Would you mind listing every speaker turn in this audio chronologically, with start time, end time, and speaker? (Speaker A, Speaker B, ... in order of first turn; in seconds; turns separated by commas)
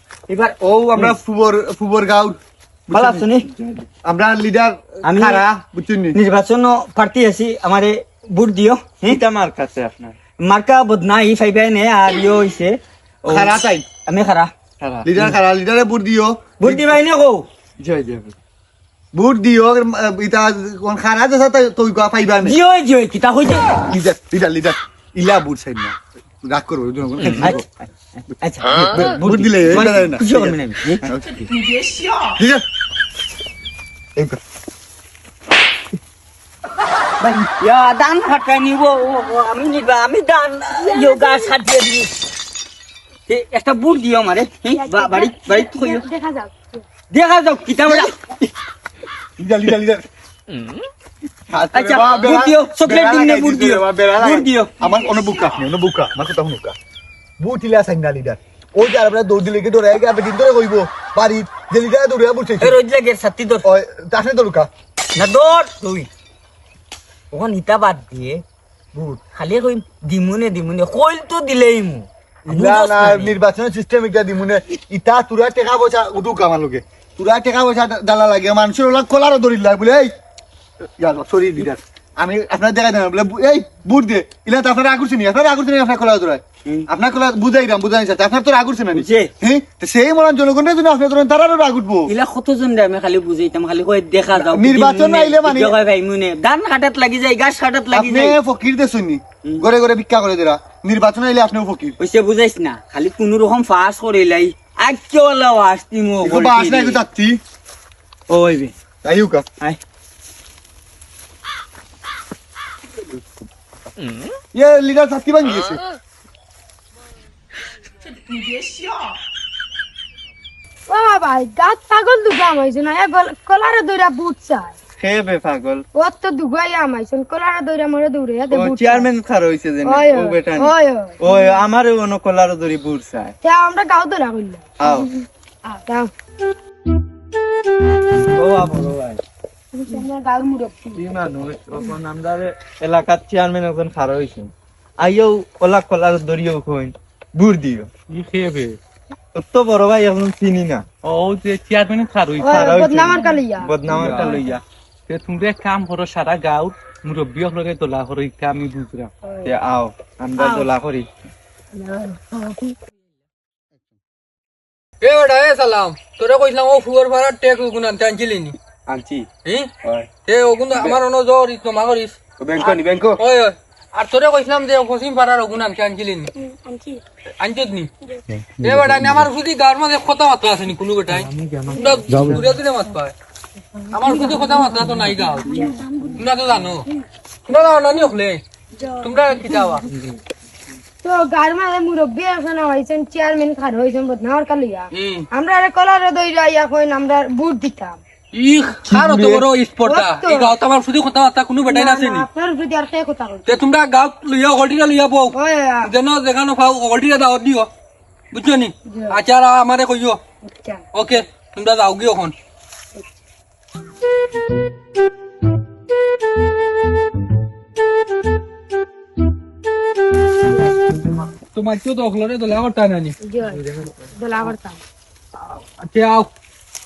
Speaker A: 0.3-1.1, Speaker B: 0.6-2.4, Speaker B: 2.9-3.2, Speaker A: 2.9-3.5, Speaker C: 3.5-3.8, Speaker B: 4.0-6.2, Speaker A: 5.0-5.5, Speaker A: 6.1-9.2, Speaker C: 9.0-10.1, Speaker A: 10.4-13.5, Speaker B: 13.3-13.8, Speaker A: 14.1-14.5, Speaker C: 14.8-15.3, Speaker B: 15.0-16.9, Speaker A: 16.6-17.5, Speaker C: 17.8-18.3, Speaker B: 19.1-22.6, Speaker A: 22.4-23.9, Speaker B: 23.9-27.6, Speaker A: 27.3-31.1, Speaker B: 28.6-31.5, Speaker B: 32.4-32.6, Speaker A: 37.2-42.1, Speaker D: 40.8-41.5, Speaker A: 43.3-46.0, Speaker D: 44.7-46.8, Speaker A: 47.1-48.5, Speaker B: 47.9-48.1, Speaker B: 49.4-50.0, Speaker B: 51.5-56.8, Speaker A: 51.7-54.7, Speaker B: 57.4-62.8, Speaker A: 62.6-63.6, Speaker B: 63.6-64.7, Speaker A: 65.1-66.1, Speaker A: 67.3-73.3, Speaker B: 72.5-80.1, Speaker B: 81.0-92.1, Speaker A: 88.9-89.3, Speaker A: 92.1-98.4, Speaker B: 94.3-95.8, Speaker B: 97.9-102.0, Speaker A: 102.0-107.0, Speaker B: 106.2-107.4, Speaker A: 108.3-108.7, Speaker B: 109.0-109.5, Speaker B: 114.5-115.8, Speaker D: 120.9-124.7, Speaker C: 125.0-125.8, Speaker D: 125.9-129.1, Speaker C: 128.5-133.3, Speaker D: 129.8-131.6, Speaker D: 133.4-136.1, Speaker C: 134.8-135.1, Speaker C: 138.3-139.2, Speaker D: 139.7-141.0, Speaker C: 140.9-147.9, Speaker E: 148.1-148.8, Speaker C: 149.3-150.8, Speaker E: 151.0-152.6, Speaker D: 152.4-154.3, Speaker C: 152.5-154.6, Speaker E: 153.8-154.4, Speaker E: 155.1-159.1, Speaker D: 159.2-159.5, Speaker C: 159.4-161.1, Speaker D: 160.4-160.7, Speaker D: 161.7-162.7, Speaker F: 165.0-168.6, Speaker C: 168.9-169.3, Speaker F: 169.4-169.7, Speaker F: 170.2-176.3, Speaker B: 172.4-173.2, Speaker D: 176.6-177.0, Speaker F: 177.4-177.9, Speaker F: 178.6-183.1, Speaker C: 181.2-182.4, Speaker D: 181.7-182.1, Speaker F: 183.9-186.9, Speaker D: 183.9-184.5, Speaker D: 185.3-186.2, Speaker F: 187.5-188.4, Speaker F: 189.0-189.9, Speaker D: 191.0-198.0, Speaker F: 194.9-195.3, Speaker F: 198.3-202.2, Speaker B: 198.9-199.4, Speaker D: 199.8-200.5, Speaker D: 201.7-203.4, Speaker F: 203.4-207.7, Speaker D: 205.3-205.9, Speaker F: 208.3-210.2, Speaker D: 208.9-209.2, Speaker D: 210.4-210.8, Speaker F: 210.9-212.3, Speaker F: 221.5-223.2, Speaker D: 223.2-224.8, Speaker C: 223.5-224.1, Speaker F: 225.4-226.3